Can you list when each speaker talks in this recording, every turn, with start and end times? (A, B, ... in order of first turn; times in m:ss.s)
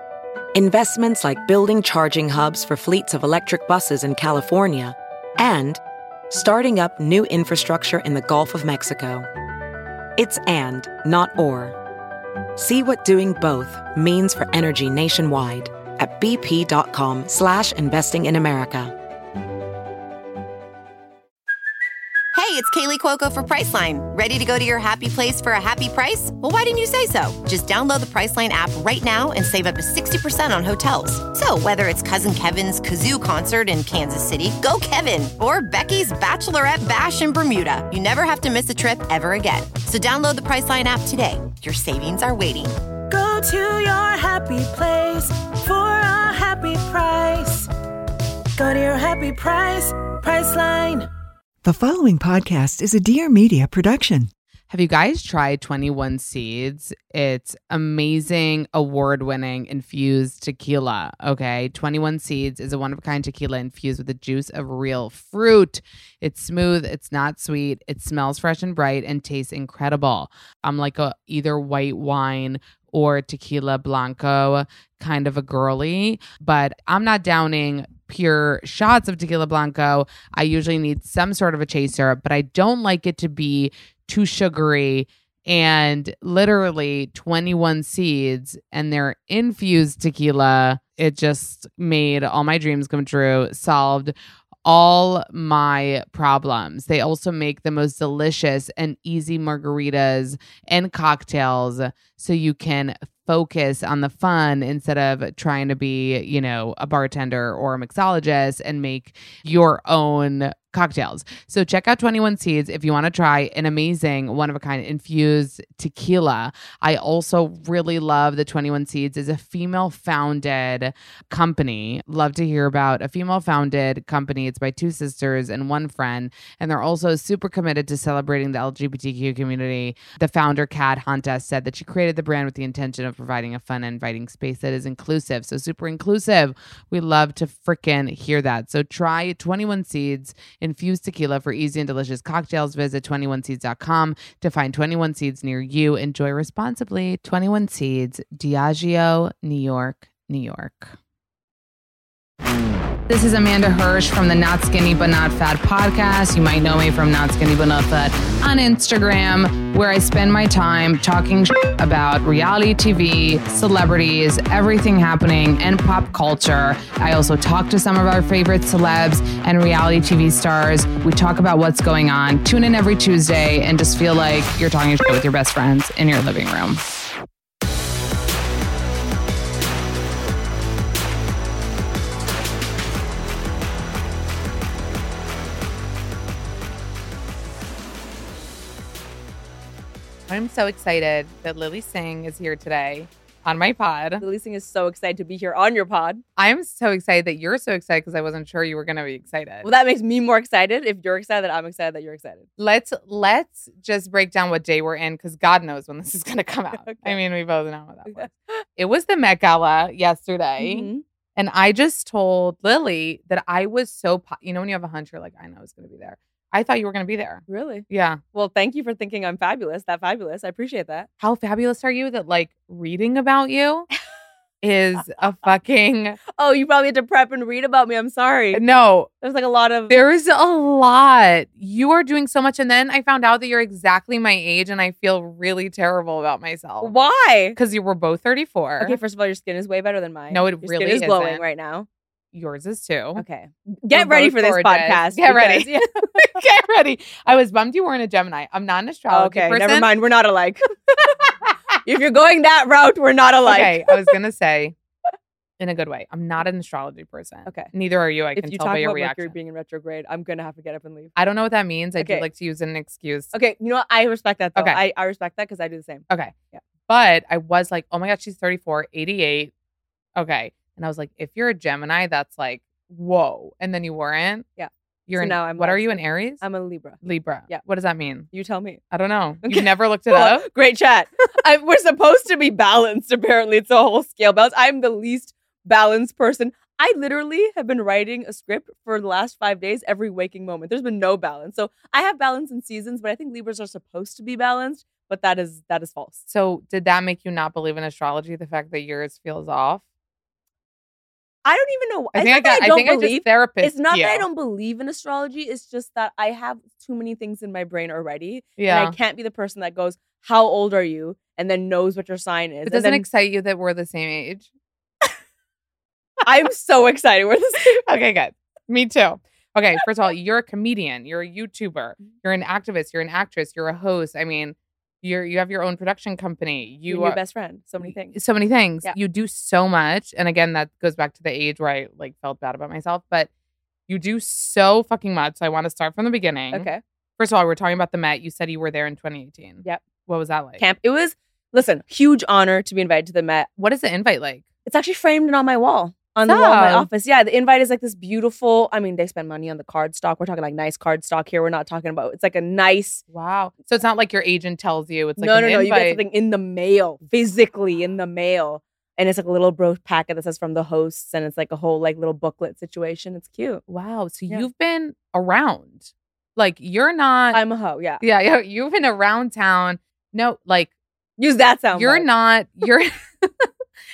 0:00.5-0:09.3 A
0:10.2-0:11.8 A
0:12.6-0:18.9 A
0:22.3-0:42.8 B
0:43.1-0:47.7 C
0:48.6-0:51.1 C
0:51.6-0:54.2 D
0:54.7-1:34.1 E
1:34.6-2:31.0 E
2:33.1-2:56.8 E
3:10.3-3:14.2 E
3:14.2-3:16.2 F
3:16.4-3:19.7 E
3:19.6-3:22.4 F
3:22.6-3:38.2 E
3:26.8-3:27.2 F
3:30.6-3:31.0 F
3:37.5-3:41.1 F
3:41.2-3:43.9 E
3:44.6-3:46.2 E
3:46.4-3:48.6 F
3:48.5-3:49.1 E
3:49.2-3:50.0 F
3:49.9-3:56.9 E
3:56.8-3:57.6 F
3:57.6-3:59.0 E
3:58.8-4:01.9 F
4:00.3-4:01.4 E
4:02.3-4:03.2 E
4:03.2-4:06.3 F
4:03.9-4:09.9 E
4:09.1-4:11.1 F
4:11.8-4:13.9 F
4:13.4-4:14.7 E
4:15.6-4:19.3 E
4:18.3-4:21.1 F
4:21.2-4:23.3 E
4:22.0-4:22.2 F
4:23.3-4:26.6 F
4:26.9-4:29.5 E
4:30.2-4:34.5 E
4:34.6-4:37.0 F
4:35.1-4:36.4 E
4:37.0-4:38.3 E
4:38.3-4:38.8 F
4:38.9-4:40.4 E
4:39.4-4:56.2 F
4:56.3-4:59.8 E
5:01.4-5:13.0 F
5:02.1-5:04.2 E
5:08.6-5:08.9 E
5:12.7-5:14.5 E
5:16.2-5:17.8 F
5:17.8-5:27.2 E
5:26.9-5:28.1 F
5:27.8-5:33.3 E
5:33.9-5:36.7 E
5:36.5-5:36.8 F
5:37.2-5:40.6 E
5:40.6-5:43.5 F
5:43.6-5:44.4 E
5:44.6-5:53.0 F
5:46.3-5:46.9 E
5:53.1-5:56.0 E
5:55.2-6:03.6 F
6:03.7-6:07.4 E
6:07.3-6:08.0 F
6:08.0-6:10.7 E
6:11.2-6:12.0 F
6:11.7-6:13.5 E